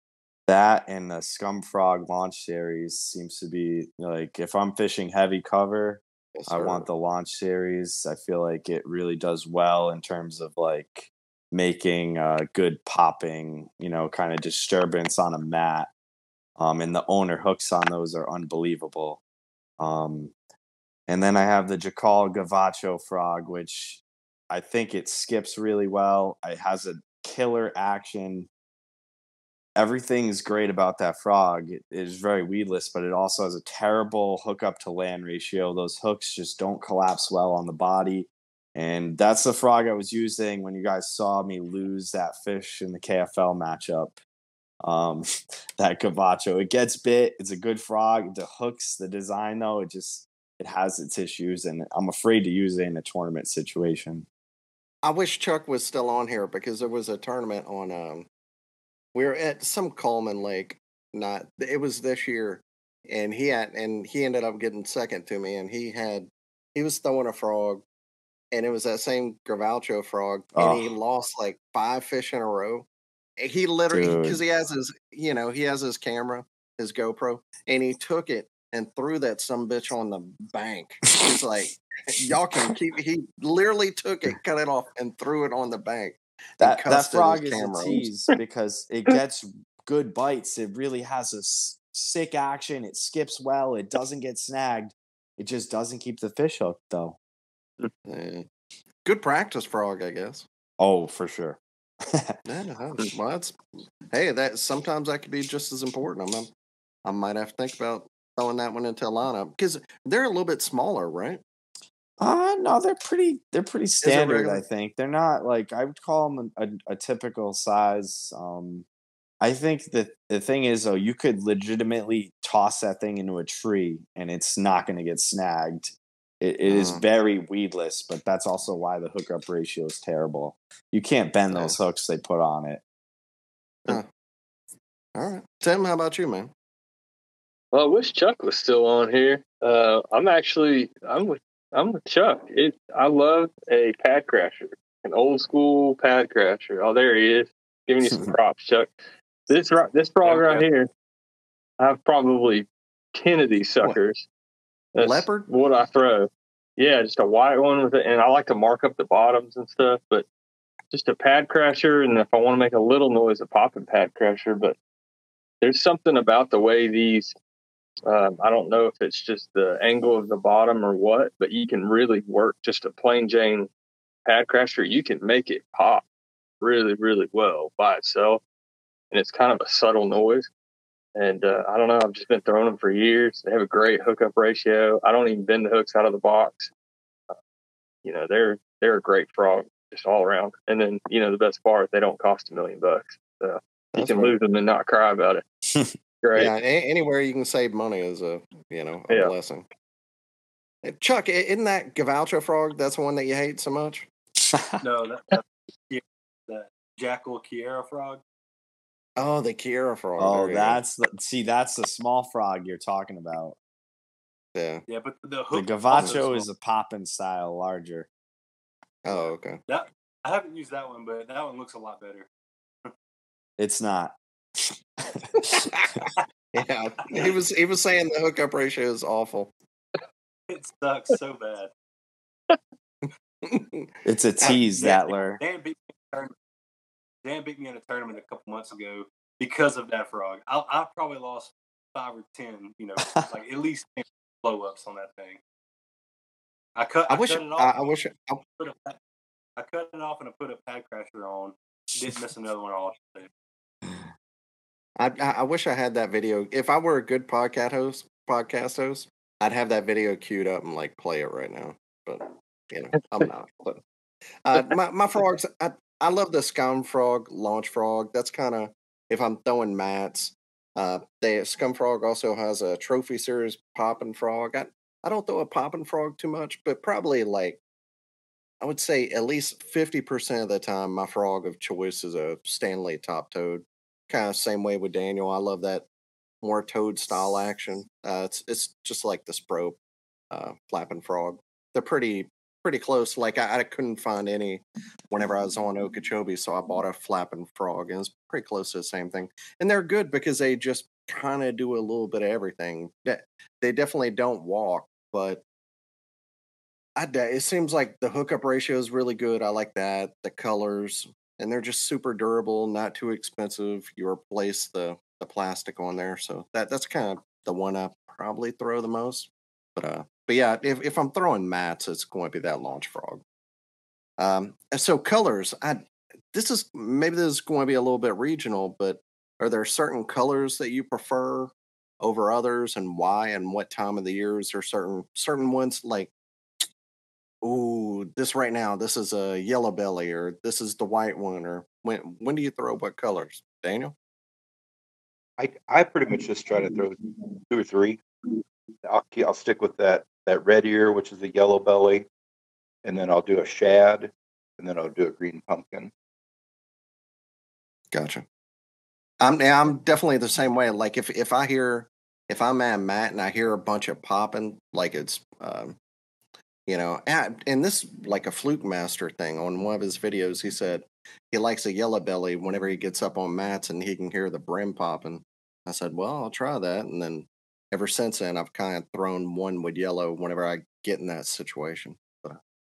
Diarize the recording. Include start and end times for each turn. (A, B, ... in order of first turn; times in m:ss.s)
0:00.5-0:15.9 A
0:06.3-0:06.8 B
0:16.6-0:19.2 A
0:19.8-0:20.3 A
0:21.1-0:28.5 A
0:29.8-0:44.2 A
0:44.8-0:45.2 A
0:45.8-0:54.3 A
0:55.0-0:58.3 B
0:59.1-1:07.8 B
1:08.5-1:12.9 B
1:10.6-1:10.8 A
1:13.4-1:28.1 B
1:13.9-1:14.4 A
1:26.6-1:37.2 A
1:38.0-1:38.4 B
1:39.0-1:40.4 B
1:40.8-1:42.4 A
1:42.4-1:43.6 B
1:44.1-1:46.5 B
1:47.0-1:51.4 B
1:52.2-1:58.8 A
1:54.0-1:54.6 B
1:59.4-2:12.8 A
2:06.7-2:07.0 B
2:11.5-2:11.8 B
2:15.2-2:16.5 B
2:17.7-2:30.9 C
2:30.3-2:30.6 D
2:31.8-2:34.2 C
2:34.9-2:40.2 C
2:35.0-2:35.5 B
2:40.9-2:44.8 C
2:45.6-2:47.3 C
2:48.1-2:53.7 C
2:54.2-2:56.0 C
2:56.6-2:58.4 C
2:59.1-3:00.5 C
3:01.2-3:06.7 C
3:08.0-3:15.4 C
3:13.9-3:14.3 B
3:16.2-3:16.5 C
3:16.3-3:19.7 B
3:20.8-3:24.1 B
3:24.5-3:24.8 A
3:24.8-3:28.2 E
3:29.2-3:30.8 B
3:30.2-3:33.6 A
3:34.5-3:34.8 B
3:34.9-3:36.5 E
3:35.5-3:38.1 A
3:39.0-3:39.6 B
3:39.7-3:42.3 E
3:43.6-3:45.7 A
3:45.4-3:49.5 B
3:50.5-3:51.7 E
3:53.0-3:54.6 B
3:54.0-3:55.4 A
3:54.8-3:56.3 E
3:57.2-4:05.4 E
4:06.8-4:07.9 E
4:07.1-4:08.4 B
4:08.6-4:09.0 E
4:09.6-4:13.3 E
4:15.0-4:23.8 B
4:24.4-4:37.6 B
4:38.6-4:45.8 B
4:46.4-4:49.8 B
4:50.3-5:05.4 B
5:07.0-5:23.2 B
5:24.2-5:36.1 B
5:37.4-5:43.9 B
5:45.4-5:48.2 D
5:48.8-5:52.1 D
5:52.8-5:55.9 D
5:57.9-5:58.2 B
5:59.2-6:05.8 B
6:06.7-6:22.4 B